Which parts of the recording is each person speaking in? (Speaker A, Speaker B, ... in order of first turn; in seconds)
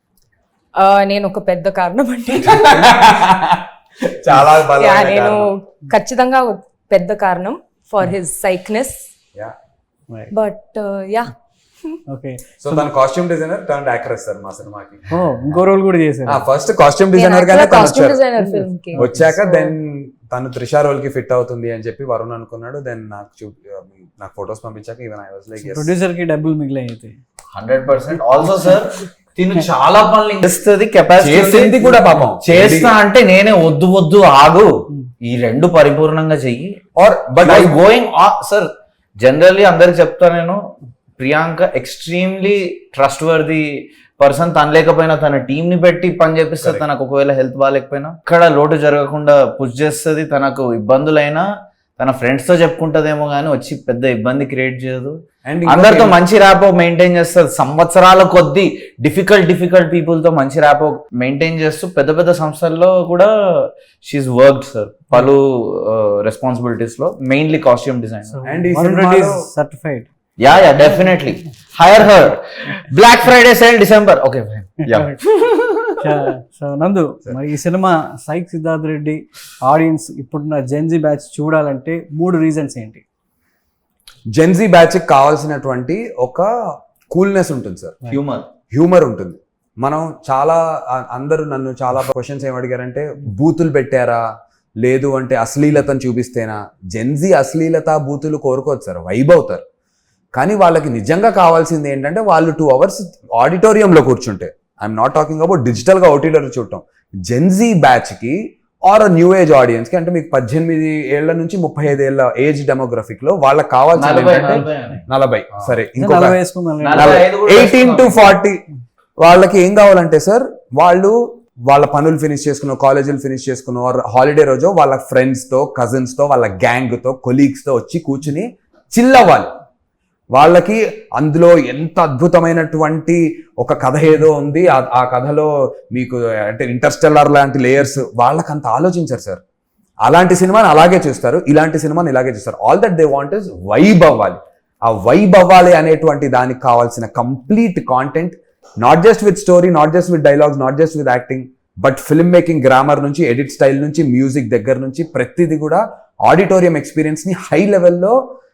Speaker A: 0.8-2.9, 4.8-9.0, 10.3-11.3, 17.1-19.7
Speaker B: 2.5-5.5, 12.6-15.1, 16.3-18.2, 18.9-25.9, 31.2-32.9, 37.0-37.8, 55.4-56.2, 68.5-69.5, 84.3-86.5, 87.1-88.0, 88.7-94.2, 94.8-99.6, 100.3-116.4, 117.0-118.6, 119.2-129.5, 130.3-139.4, 140.0-158.2
Speaker C: 12.1-12.9, 15.1-16.4, 18.4-19.3, 25.6-27.2, 68.3-70.1, 76.0-83.0, 116.0-117.2
Speaker D: 27.5-36.8, 37.4-40.6, 41.2-51.4, 52.0-68.4, 70.4-75.9, 88.1-88.5, 114.0-115.0, 116.8-118.3